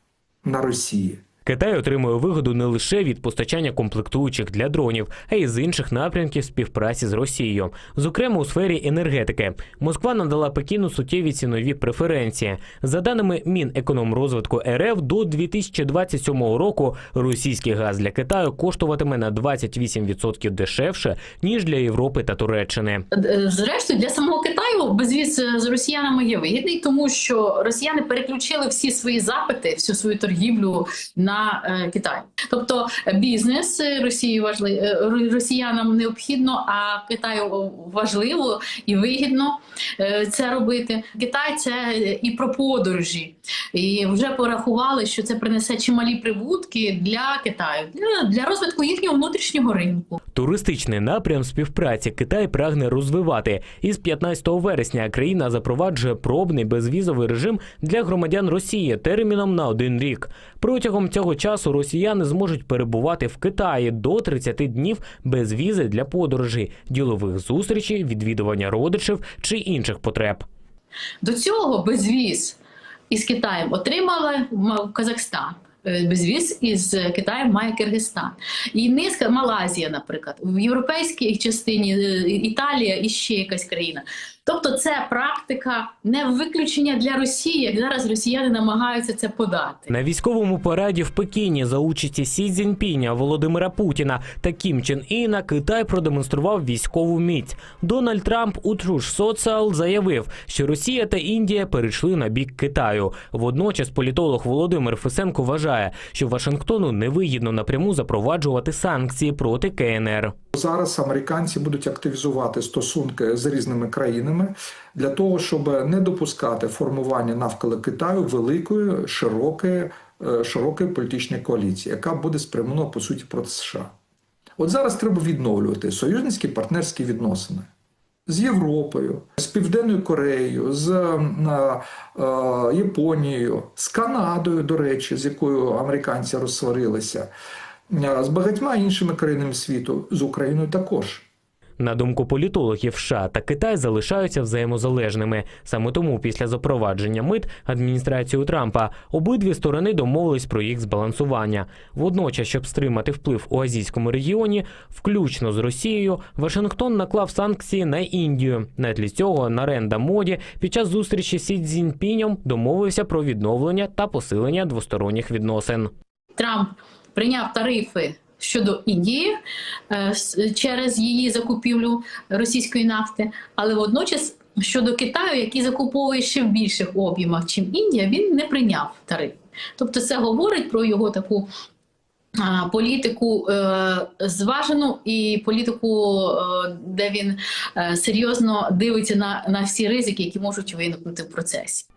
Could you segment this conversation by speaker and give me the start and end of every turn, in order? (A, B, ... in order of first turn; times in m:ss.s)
0:00.4-0:01.2 A
0:01.5-0:23.0 B
0:23.1-0:50.2 C
0:50.4-1:10.4 B
1:11.2-1:12.6 C
1:13.1-1:29.9 C
1:29.9-1:50.3 B
1:50.5-2:03.9 A
2:04.6-2:07.7 A
2:08.3-2:17.3 A
2:17.9-2:21.3 A
2:21.8-2:45.9 B
2:46.4-2:49.4 C
2:49.9-3:01.5 C
3:02.4-3:11.9 C